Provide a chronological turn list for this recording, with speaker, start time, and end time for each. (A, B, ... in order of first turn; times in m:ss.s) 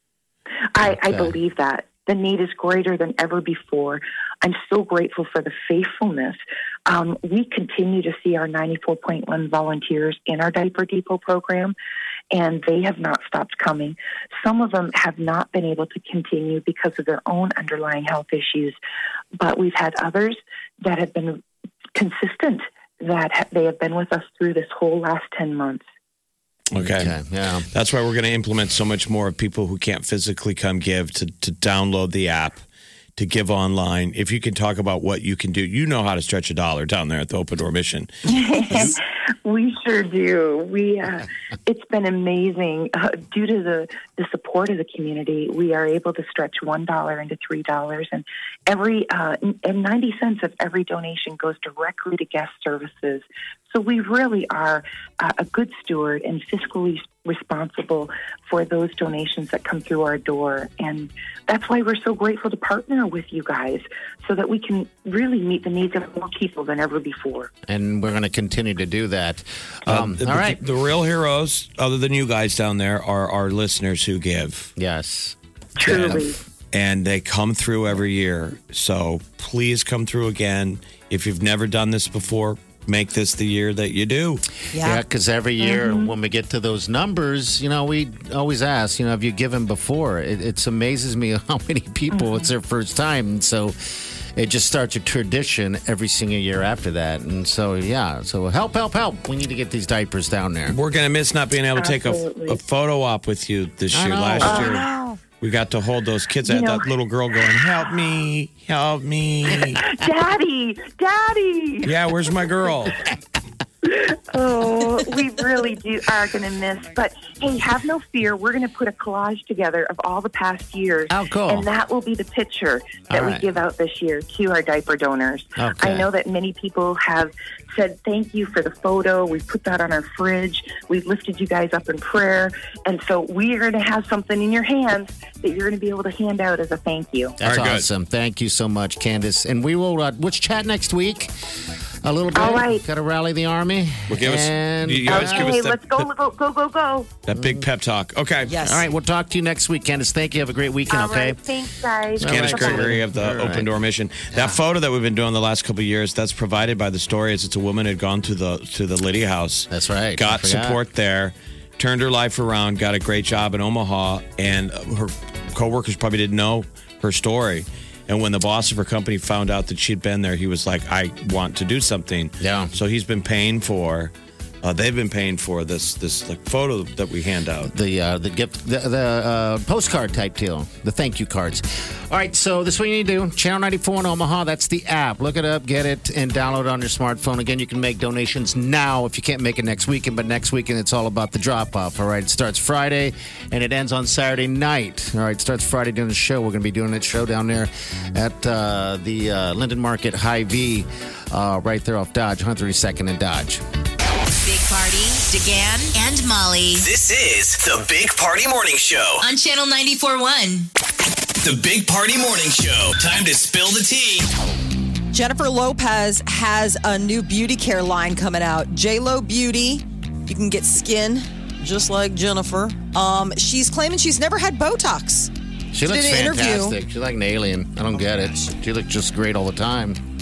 0:00.7-0:11.8 A
0:00.8-0:01.4 B
0:12.3-0:18.8 A
0:19.4-0:21.4 A
0:22.0-0:25.8 A
0:26.7-0:27.1 C
0:26.8-0:27.7 B
0:27.7-0:32.6 C
0:33.2-0:38.1 C
0:38.3-1:07.5 A
1:07.7-1:10.6 B
1:09.9-1:14.7 C
1:14.8-1:16.4 B
1:15.8-1:16.4 A
1:15.8-1:16.2 C
1:16.7-1:24.4 C
1:24.7-1:25.0 D
1:24.8-1:33.8 B
1:25.6-1:26.2 A
1:32.1-1:32.5 A
1:34.4-1:40.8 B
1:40.7-1:44.9 C
1:41.8-1:42.6 A
1:43.9-1:44.9 B
1:44.4-1:44.9 A
1:45.4-1:49.8 C
1:46.4-1:46.9 A
1:49.7-1:52.0 A
1:51.8-1:53.0 C
1:53.8-2:17.4 A
2:01.1-2:01.7 B
2:03.1-2:03.5 B
2:05.6-2:06.1 B
2:17.4-2:21.3 B
2:17.4-2:17.9 C
2:22.0-2:25.6 B
2:22.3-2:22.8 A
2:24.1-2:26.1 C
2:25.1-2:27.2 A
2:27.3-2:28.6 C
2:27.3-2:27.6 B
2:28.5-2:28.9 D
2:28.6-2:31.4 B
2:30.9-2:33.0 A
2:32.2-2:33.7 B
2:32.2-2:54.1 C
2:34.3-2:34.6 B
2:39.7-2:40.8 B
2:52.4-2:52.7 B
2:54.6-2:57.7 C
2:57.7-3:23.6 B
3:24.3-3:26.9 E
3:26.8-3:29.2 F
3:29.2-3:30.7 E
3:31.4-3:34.3 F
3:35.1-3:45.3 D
3:45.7-3:50.0 B
3:45.9-3:46.8 D
3:48.0-3:48.5 D